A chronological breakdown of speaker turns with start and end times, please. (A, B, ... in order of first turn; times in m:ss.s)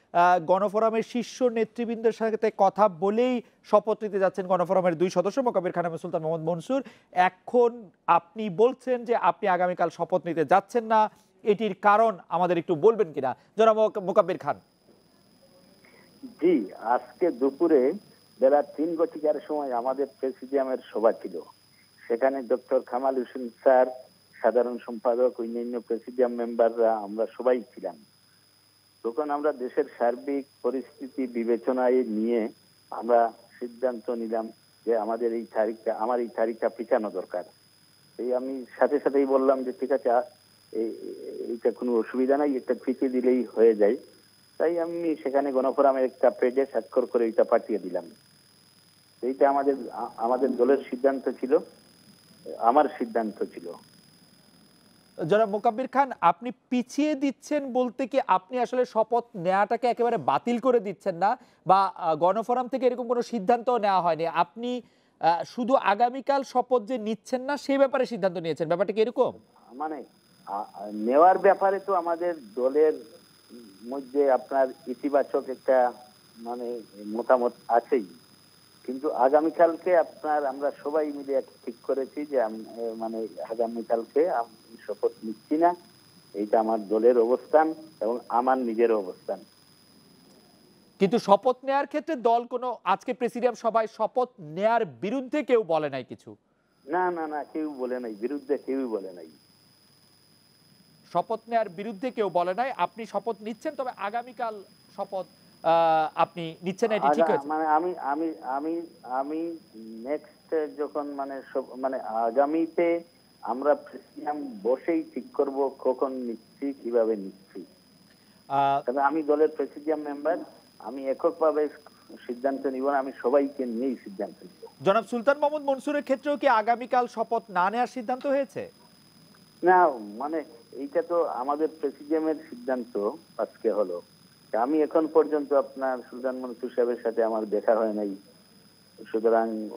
0:00.5-0:14.6 A
0:16.4-0:17.8 B
0:18.4-0:21.4 B
0:22.1-0:23.9 B
0:24.4-0:28.0 B
0:29.0-0:32.4 B
0:33.0-0:37.5 B
0:38.2-0:40.2 B
0:40.8-0:44.0 B
0:44.6-0:48.1 B
0:49.2-0:51.6 B
0:52.7-0:53.7 B
0:55.3-1:04.7 A
1:05.5-1:09.3 A
1:09.7-1:10.0 B
1:10.6-1:12.9 B
1:13.9-1:15.8 B
1:16.5-1:18.1 B
1:18.8-1:25.7 B
1:26.4-1:29.4 B
1:31.0-1:36.3 A
1:36.9-1:39.3 B
1:41.1-1:47.4 A
1:46.9-1:49.4 B
1:50.1-1:52.9 B
1:53.5-1:57.6 B
1:58.5-1:58.8 A
1:58.9-2:01.7 B
2:02.2-2:04.7 B
2:04.8-2:08.6 A
2:09.6-2:14.0 B
2:14.6-2:18.1 B
2:19.1-2:19.5 B